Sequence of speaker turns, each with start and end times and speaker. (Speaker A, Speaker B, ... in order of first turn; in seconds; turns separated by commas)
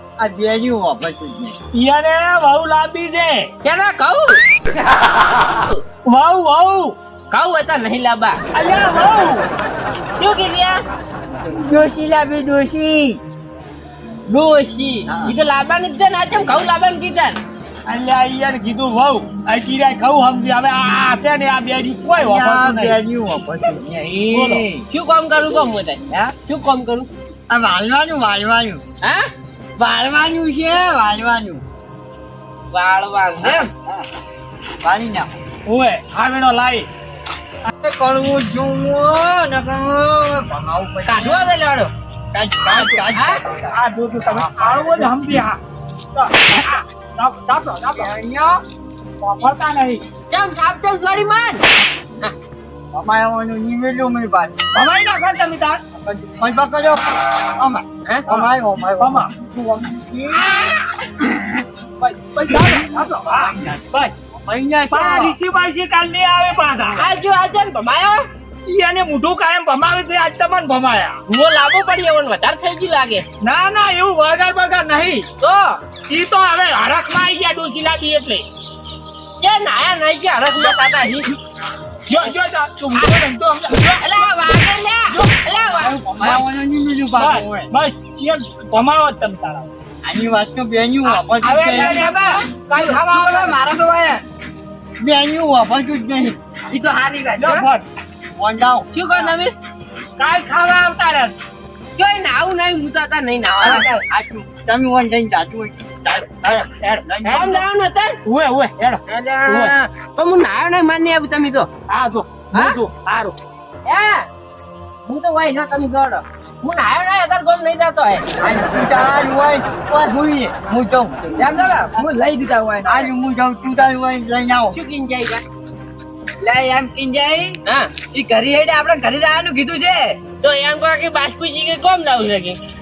Speaker A: 0.2-1.6, Speaker B: 1.7-3.5, Speaker C: 3.6-4.4, Speaker B: 6.0-7.0, Speaker C: 7.3-8.4, Speaker B: 8.5-9.5, Speaker C: 10.2-10.8, Speaker A: 11.6-13.2, Speaker C: 14.3-17.4, Speaker A: 15.1-15.3, Speaker B: 17.9-23.0, Speaker A: 22.1-24.9, Speaker B: 24.3-24.6, Speaker C: 24.9-27.1, Speaker A: 27.5-28.8, Speaker C: 29.0-29.3, Speaker A: 29.8-31.6, Speaker C: 32.7-33.7, Speaker A: 33.4-34.0, Speaker A: 34.8-35.3, Speaker B: 35.6-36.9, Speaker A: 37.7-41.5, Speaker C: 41.0-41.9, Speaker A: 42.3-43.7, Speaker B: 42.6-43.0, Speaker C: 43.1-43.4, Speaker B: 43.7-45.6, Speaker A: 44.3-45.1, Speaker B: 46.1-48.1, Speaker A: 47.9-48.6, Speaker B: 49.2-50.0, Speaker C: 50.3-51.6, Speaker A: 52.9-54.6, Speaker B: 54.7-55.8, Speaker A: 56.2-61.6, Speaker B: 59.0-59.3, Speaker C: 60.3-60.9, Speaker B: 62.2-64.1, Speaker A: 62.5-65.4, Speaker B: 64.9-67.0, Speaker C: 67.0-68.2, Speaker B: 68.7-71.2, Speaker C: 71.3-73.2, Speaker B: 73.4-75.3, Speaker C: 75.4-75.8, Speaker B: 76.1-78.5, Speaker C: 79.4-81.3, Speaker B: 82.1-84.3, Speaker C: 84.0-86.0, Speaker B: 85.1-86.4, Speaker A: 85.8-87.7, Speaker B: 87.2-89.7, Speaker A: 90.0-92.0, Speaker B: 91.0-93.6, Speaker D: 91.7-94.2, Speaker A: 95.0-96.4, Speaker D: 96.7-97.7, Speaker B: 97.4-97.8, Speaker A: 98.3-98.9, Speaker C: 98.9-99.5, Speaker B: 100.2-101.3, Speaker C: 102.0-103.8, Speaker B: 103.6-104.0, Speaker A: 103.6-107.6, Speaker B: 106.6-107.6, Speaker C: 107.3-108.2, Speaker B: 108.2-109.7, Speaker C: 109.1-111.7, Speaker B: 111.9-113.3, Speaker C: 112.5-112.8, Speaker C: 113.8-114.3, Speaker C: 115.0-118.2, Speaker A: 118.4-121.2, Speaker D: 121.3-123.1, Speaker A: 122.8-124.8, Speaker C: 124.7-125.4, Speaker D: 126.4-130.2, Speaker C: 127.7-127.9, Speaker C: 130.4-132.6